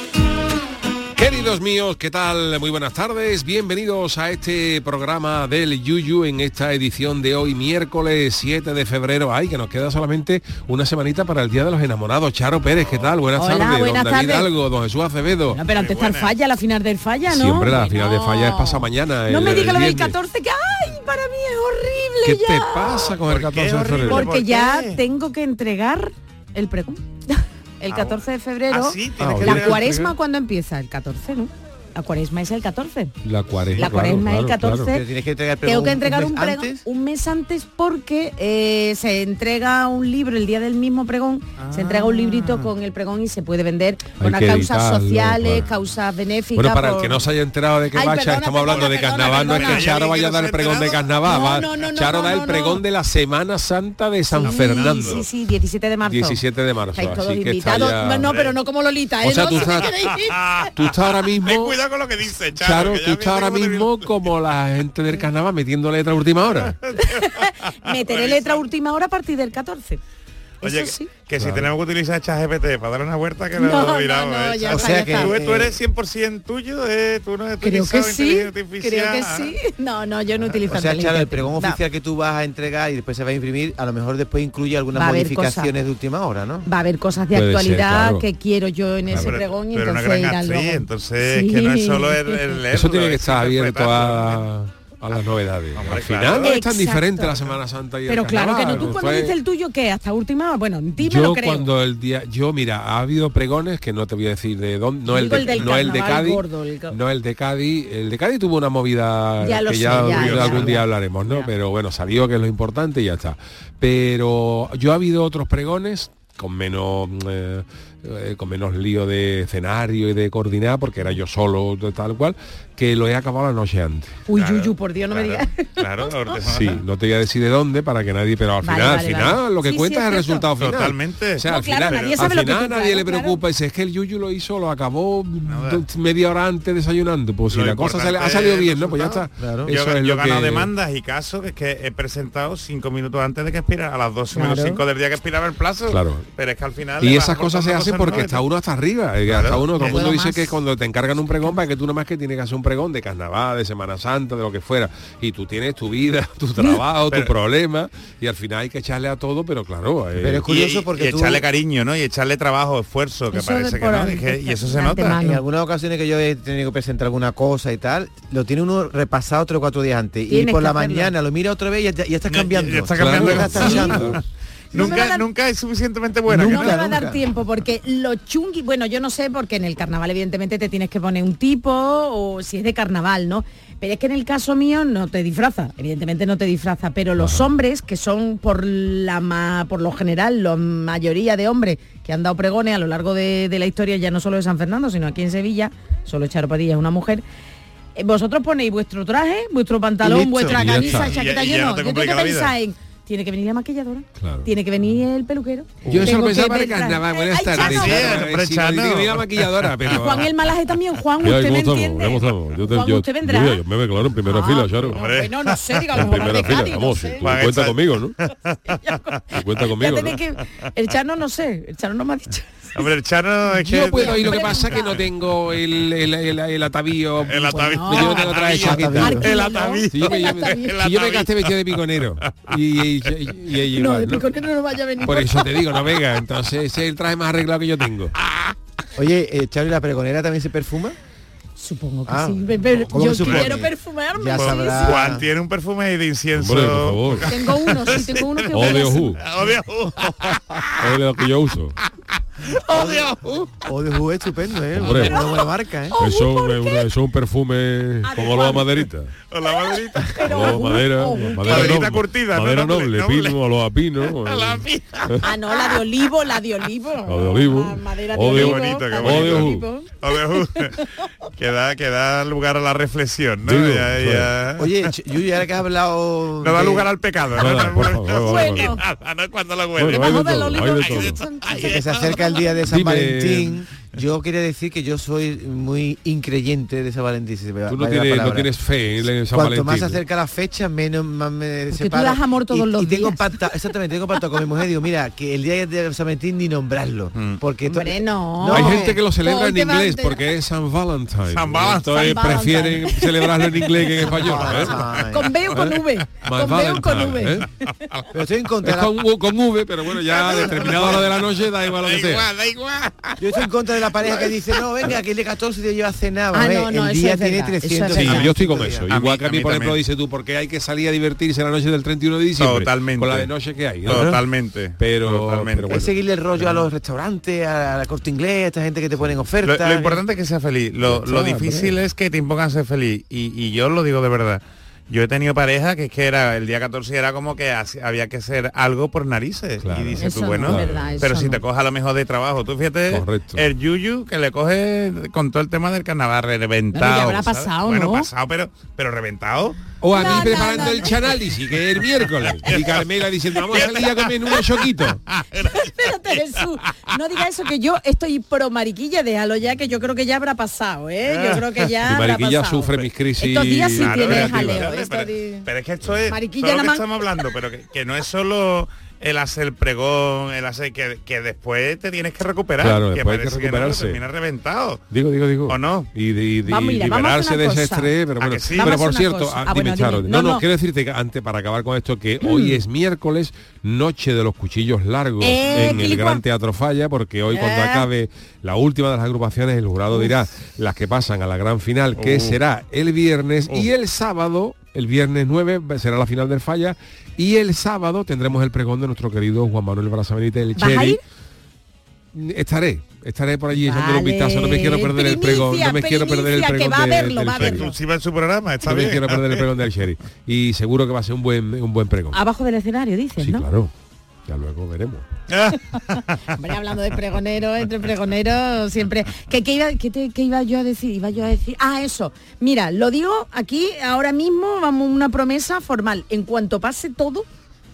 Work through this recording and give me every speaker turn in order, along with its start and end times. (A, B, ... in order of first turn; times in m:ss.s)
0:01.2-0:15.6 A
0:13.4-0:14.5 B
0:15.5-0:23.1 B
0:15.7-0:16.3 C
0:17.3-0:20.2 A
0:22.2-0:24.3 A
0:23.2-0:25.0 C
0:24.0-0:33.1 B
0:27.9-0:30.1 C
0:29.2-0:29.6 D
0:29.2-0:29.9 A
0:33.2-0:34.9 A
0:33.8-0:35.0 B
0:34.9-0:36.8 D
0:35.6-0:47.2 B
0:41.6-0:42.6 C
0:44.2-0:45.7 A
0:46.5-0:55.2 A
0:47.9-0:49.9 B
0:48.7-0:51.1 C
0:51.2-0:52.8 B
0:54.3-0:56.4 B
0:54.4-0:55.2 C
0:56.0-0:58.3 A
0:56.9-1:00.6 B
0:57.7-0:58.5 C
0:59.2-0:59.9 A
0:59.5-1:04.3 C
1:00.7-1:01.8 A
1:02.5-1:06.8 A
1:06.6-1:08.6 C
1:07.0-1:10.0 B
1:10.6-1:11.1 B
1:10.6-1:19.5 C
1:11.4-1:11.7 A
1:13.6-1:15.4 B
1:14.6-1:15.8 D
1:17.6-1:21.8 B
1:20.6-1:26.7 D
1:24.9-1:25.7 B
1:26.6-1:32.4 B
1:27.3-1:28.2 A
1:29.1-1:34.5 C
1:32.7-1:39.4 A
1:35.7-1:36.6 C
1:36.4-1:37.3 B
1:38.1-1:41.7 B
1:41.0-2:04.2 A
1:45.1-1:47.0 B
1:49.4-1:51.5 B
1:50.1-1:50.7 C
2:04.3-2:06.1 B
2:04.3-2:06.8 C
2:06.5-2:20.7 A
2:08.6-2:10.5 B
2:10.6-2:12.3 C
2:11.4-2:13.4 B
2:15.5-2:15.8 C
2:17.5-2:28.4 C
2:19.4-2:19.7 D
2:24.3-2:24.8 B
2:25.9-2:26.2 A
2:27.0-2:40.5 A
2:29.3-2:30.1 C
2:29.8-2:30.6 B
2:40.2-2:41.4 D
2:40.5-2:45.2 C
2:43.3-2:45.4 B
2:45.2-2:54.2 D
2:50.3-2:51.1 B
2:52.3-2:54.2 C
2:52.9-2:54.2 A
2:53.4-2:54.0 B
2:54.7-2:55.2 B
2:54.7-2:56.8 C
2:56.3-2:57.2 D
2:56.4-3:17.2 B
3:07.2-3:07.5 A
3:18.0-3:28.3 B
3:20.0-3:20.6 D
3:20.5-3:21.2 A
3:20.8-3:22.5 C
3:24.2-3:24.5 A
3:25.8-3:26.1 C
3:25.8-3:30.3 A
3:27.5-3:30.2 C
3:29.9-3:33.6 B
3:31.2-3:35.1 A
3:34.2-3:37.3 B
3:34.8-3:36.6 C
3:35.9-3:38.1 A
3:37.2-3:39.2 C
3:39.3-3:40.2 A
3:39.6-3:42.8 B
3:42.7-3:44.8 C
3:43.6-3:49.2 A
3:43.9-3:45.0 B
3:47.2-3:52.6 C
3:47.6-3:50.8 B
3:48.6-3:49.2 D
3:49.9-3:54.3 A
3:53.7-3:55.7 B
3:55.0-3:58.1 A
3:58.2-3:58.5 C
3:59.0-4:01.0 D
4:01.6-4:05.2 B
4:02.1-4:05.2 D
4:03.0-4:03.6 C
4:04.3-4:10.9 C
4:06.3-4:07.3 A
4:07.2-4:09.2 B
4:08.5-4:09.2 A
4:10.8-4:11.8 A
4:12.5-4:13.2 C
4:12.7-4:15.9 D
4:14.7-4:15.1 A
4:15.1-4:16.9 B
4:16.0-4:19.1 A
4:18.0-4:18.8 B
4:19.3-4:20.6 C
4:20.0-4:21.9 B
4:20.2-4:25.2 A
4:21.4-4:23.4 C
4:24.1-4:25.2 C
4:25.2-4:30.9 B
4:27.0-4:29.7 A
4:28.3-4:30.8 C
4:31.4-4:34.9 C
4:33.4-4:34.3 A
4:34.6-4:36.9 D
4:36.4-4:42.6 C
4:37.3-4:38.8 A
4:38.2-4:38.8 B
4:39.8-4:41.2 A
4:39.9-4:42.0 B
4:41.6-4:48.5 D
4:42.7-4:43.6 A
4:47.7-4:50.0 A
4:49.3-4:59.0 D
4:51.7-4:53.2 B
4:57.1-4:57.4 C
4:57.6-5:00.2 B
4:58.5-5:04.8 A
5:01.3-5:02.1 C
5:01.9-5:04.1 B
5:04.2-5:05.3 D
5:04.4-5:04.9 C
5:04.9-5:07.5 B
5:05.5-5:07.5 A
5:07.8-5:08.1 C
5:08.1-5:09.0 D
5:08.6-5:12.3 A
5:10.0-5:14.9 C
5:10.1-5:11.1 D
5:13.2-5:18.9 D
5:16.3-5:18.4 B
5:17.9-5:24.2 A
5:18.7-5:19.8 C
5:22.4-5:23.3 C
5:23.8-5:25.8 C
5:24.8-5:25.9 A
5:25.7-5:30.0 D
5:29.4-5:49.7 C
5:30.8-5:31.8 A
5:39.6-5:40.9 A
5:40.0-5:41.4 B
5:42.9-5:43.4 A
5:46.7-5:48.1 B
5:49.8-5:55.0 A
5:49.9-5:51.0 B
5:52.4-5:56.4 C
5:55.5-6:05.5 B
6:01.0-6:01.6 C
6:01.8-6:04.7 A
6:03.7-6:14.8 C
6:06.1-6:06.9 B
6:12.6-6:14.0 A
6:14.9-6:41.0 A
6:15.5-6:15.9 C
6:16.4-6:17.9 B
6:18.2-6:18.8 C
6:18.5-6:20.4 B
6:22.2-6:22.6 B
6:25.2-6:26.2 B
6:27.3-6:27.9 B
6:32.0-6:32.4 C
6:40.6-6:41.0 B
6:42.1-6:47.7 A
6:43.7-6:47.7 B
6:47.4-6:49.4 C
6:48.6-6:52.2 A
6:52.1-6:53.5 B
6:53.2-6:53.7 A
6:54.3-6:55.0 A
6:55.3-6:56.2 C
6:56.0-7:07.3 B